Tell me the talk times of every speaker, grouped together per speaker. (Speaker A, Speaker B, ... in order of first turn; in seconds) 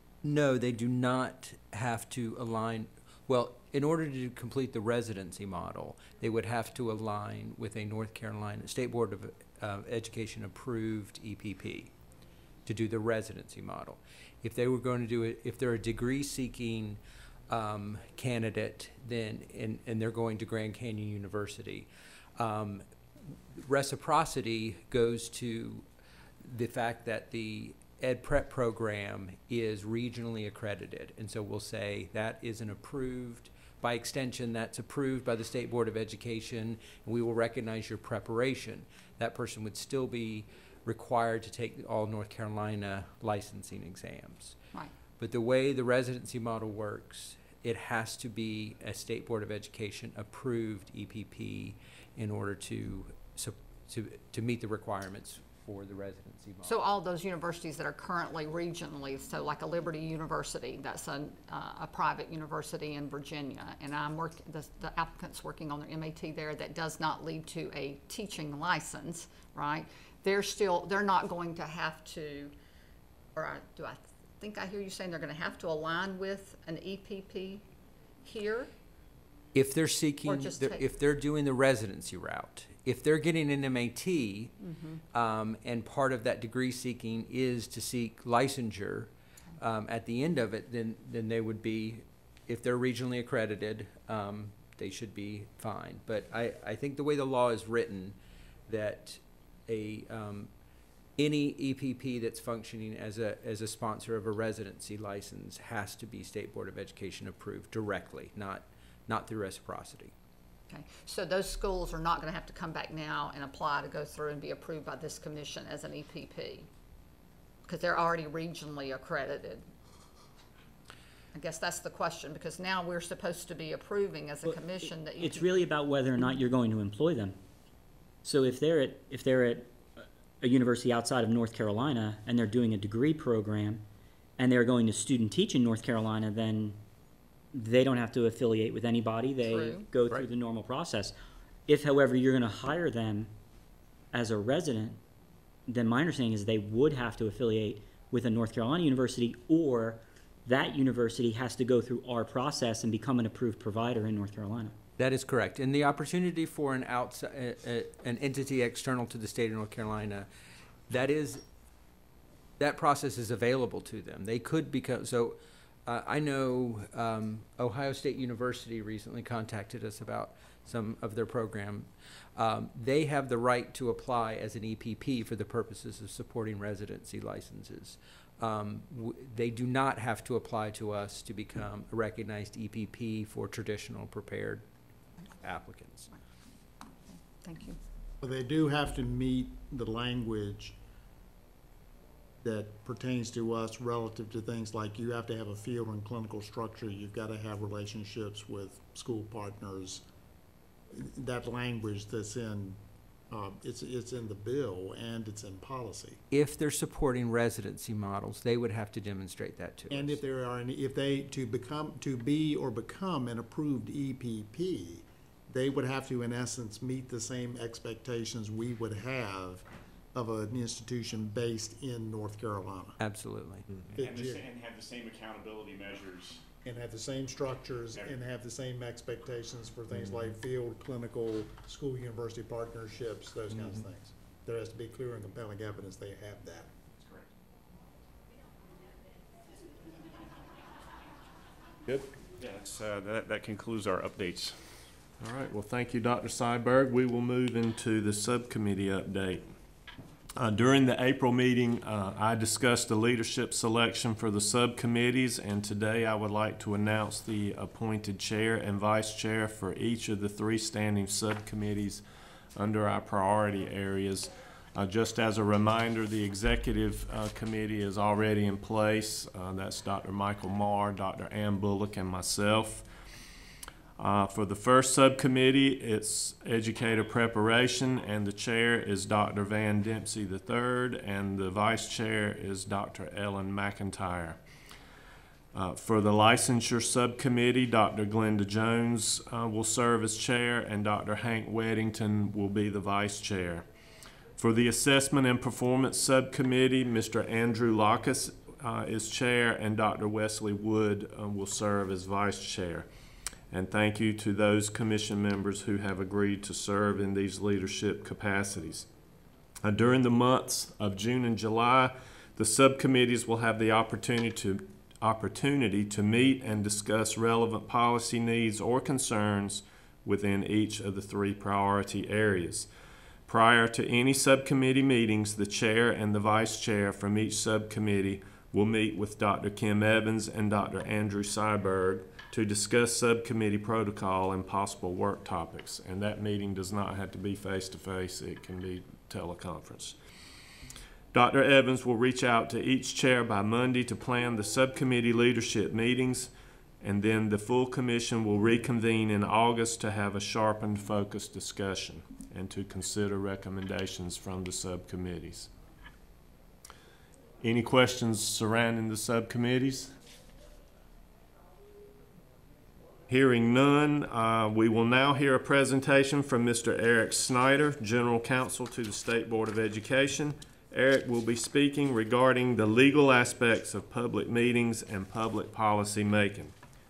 Speaker A: 0.2-11.9, 12.6-22.8, 23.6-25.9, 26.4-44.6, 45.2-56.8, 79.5-84.5, 85.1-98.2, 98.7-100.5, 101.2-110.1, 155.0-160.3, 160.9-161.4, 162.6-184.7, 185.4-186.1, 206.3-210.2, 223.0-223.7
Speaker B: 56.6-72.5, 73.3-77.6, 78.2-78.7, 80.2-80.8, 84.6-85.0, 110.7-116.7, 117.7-119.6, 121.3-125.6, 139.4-139.8, 187.4-187.8
Speaker C: 124.4-127.4, 128.2-133.8, 134.4-136.8, 137.5-141.1, 141.7-143.3, 144.1-145.0, 145.7-154.8
Speaker D: 188.2-190.7, 192.4-200.0, 200.9-202.8, 203.3-206.2, 209.9-222.9, 223.9-224.4, 226.6-236.7
Speaker E: 224.0-226.5, 237.0-237.2, 242.4-244.6
Speaker F: 245.2-249.4, 250.3-262.0, 262.5-272.8, 274.0-284.4, 285.5-293.6, 294.4-302.9, 303.5-308.9, 309.6-322.7, 323.3-339.9, 341.1-355.5, 357.4-359.9, 363.1-376.5